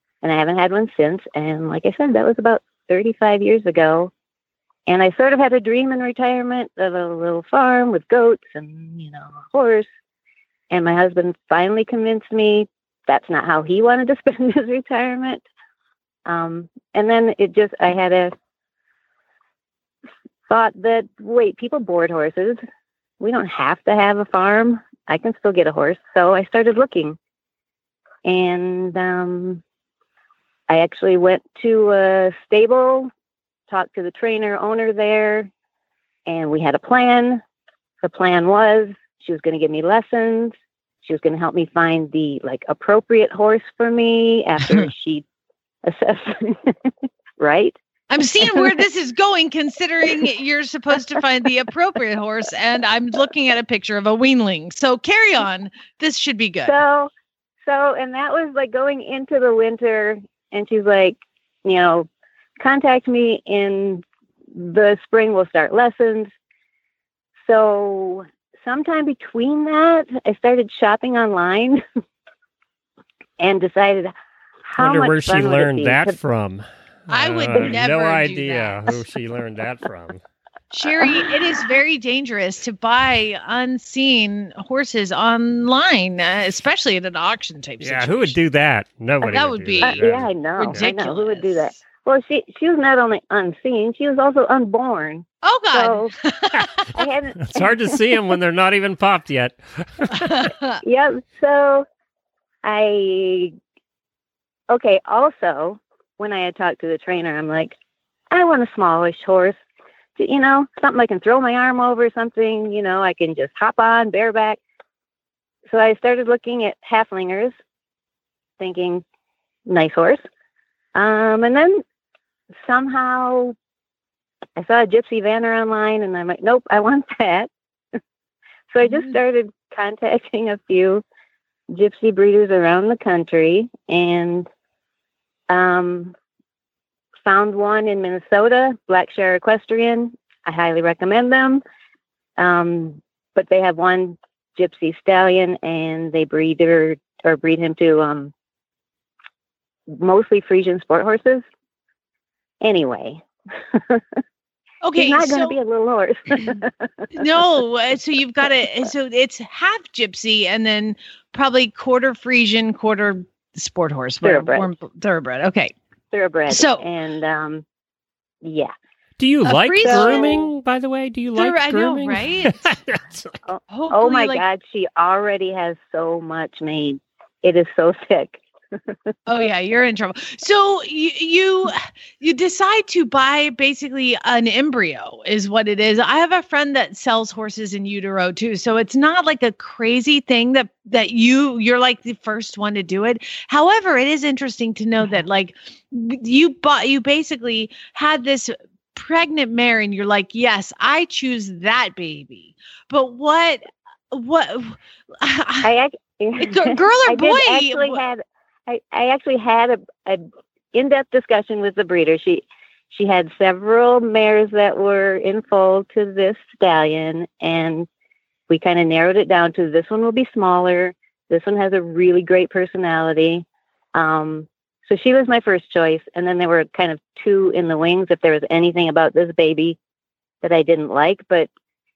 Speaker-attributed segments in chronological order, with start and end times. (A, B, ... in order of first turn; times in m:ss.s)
0:00.2-0:04.1 A
0:04.9-0:09.9 A
0:10.7-0:15.4 A
0:16.3-0:18.3 A
0:20.5-0:22.6 A
0:23.2-0:27.2 A
0:28.2-0:29.6 A
0:30.7-0:33.1 A
0:33.7-0:35.5 A
0:36.3-0:37.4 A
0:38.0-0:45.2 A
0:45.8-0:46.7 A
0:47.4-0:47.8 A
0:48.1-0:56.8 B
0:56.6-0:57.1 A
0:57.7-1:02.1 A
1:02.6-1:04.0 A
1:04.6-1:06.3 A
1:07.5-1:11.8 A
1:13.4-1:14.1 A
1:14.6-1:16.2 A
1:14.8-1:20.2 C
1:17.1-1:19.0 B
1:20.7-1:28.4 B
1:27.8-1:30.8 C
1:29.2-1:30.0 B
1:29.8-1:36.1 A
1:30.6-1:31.8 B
1:35.4-1:36.9 B
1:37.0-1:37.7 A
1:37.4-1:40.5 C
1:40.1-1:40.8 B
1:40.8-1:41.9 A
1:42.6-1:43.6 A
1:44.7-1:47.8 A
1:48.3-1:49.6 A
1:50.2-1:54.6 A
1:55.7-1:57.5 A
1:58.6-1:59.0 A
1:59.7-2:00.2 A
2:01.0-2:01.8 A
2:02.6-2:03.6 A
2:04.6-2:07.5 A
2:08.7-2:11.0 A
2:11.7-2:14.5 A
2:15.5-2:16.2 A
2:17.2-2:21.6 A
2:22.4-2:28.3 A
2:29.9-2:31.4 A
2:32.6-2:33.2 A
2:34.8-2:35.6 B
2:35.0-2:37.2 A
2:37.2-2:45.7 B
2:44.2-2:44.7 A
2:46.1-2:47.6 A
2:46.5-2:46.8 B
2:48.4-2:48.7 A
2:49.2-2:53.4 C
2:49.4-2:50.5 B
2:49.8-2:50.3 A
2:51.4-2:52.7 B
2:53.5-2:58.4 A
2:53.7-2:54.4 B
2:59.3-3:25.7 B
3:25.6-3:37.9 A
3:26.4-3:28.0 B
3:38.5-3:49.8 A
3:50.4-3:51.5 A